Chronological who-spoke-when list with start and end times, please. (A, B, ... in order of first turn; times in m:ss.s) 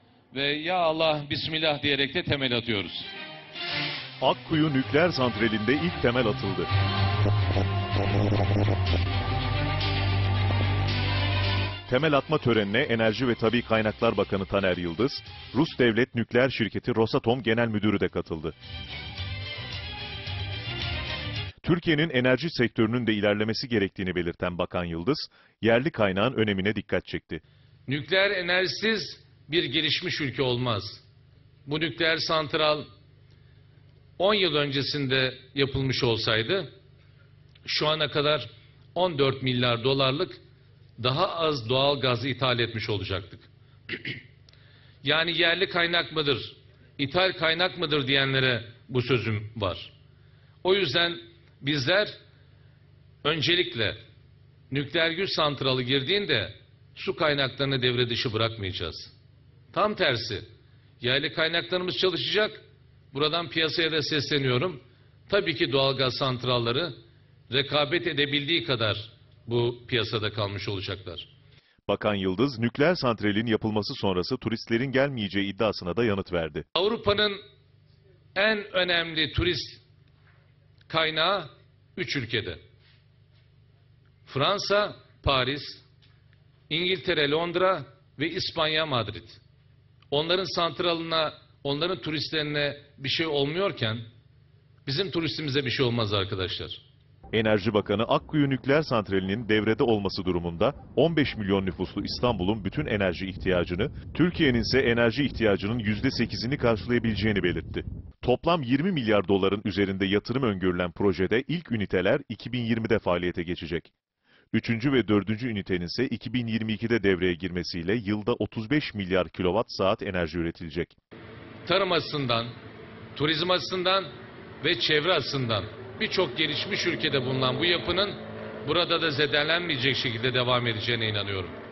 0:00.3-0:03.1 A
0:04.2-0:06.7 B
0:11.9-0:18.6 B
0:21.6-0:27.4 B
0:27.9-0:31.0 A
0:31.7-0:32.9 A
0:34.2-0:36.7 A
0:37.6-0:40.4 A
0:41.0-0:44.2 A
0:45.0-0:49.9 A
0:50.6-0:52.1 A
0:53.2-0:54.0 A
0:54.7-0:59.1 A
0:59.7-1:00.5 A
1:01.0-1:07.0 A
1:07.5-1:11.3 A
1:11.9-1:16.6 B
1:16.8-1:17.4 A
1:18.4-1:19.8 A
1:20.9-1:22.6 A
1:24.3-1:25.8 A
1:26.7-1:29.4 A
1:30.1-1:34.1 A
1:34.9-1:36.8 A
1:37.3-1:53.9 B
1:54.5-2:01.0 B
2:01.6-2:02.5 A
2:03.2-2:04.1 A
2:04.6-2:11.6 A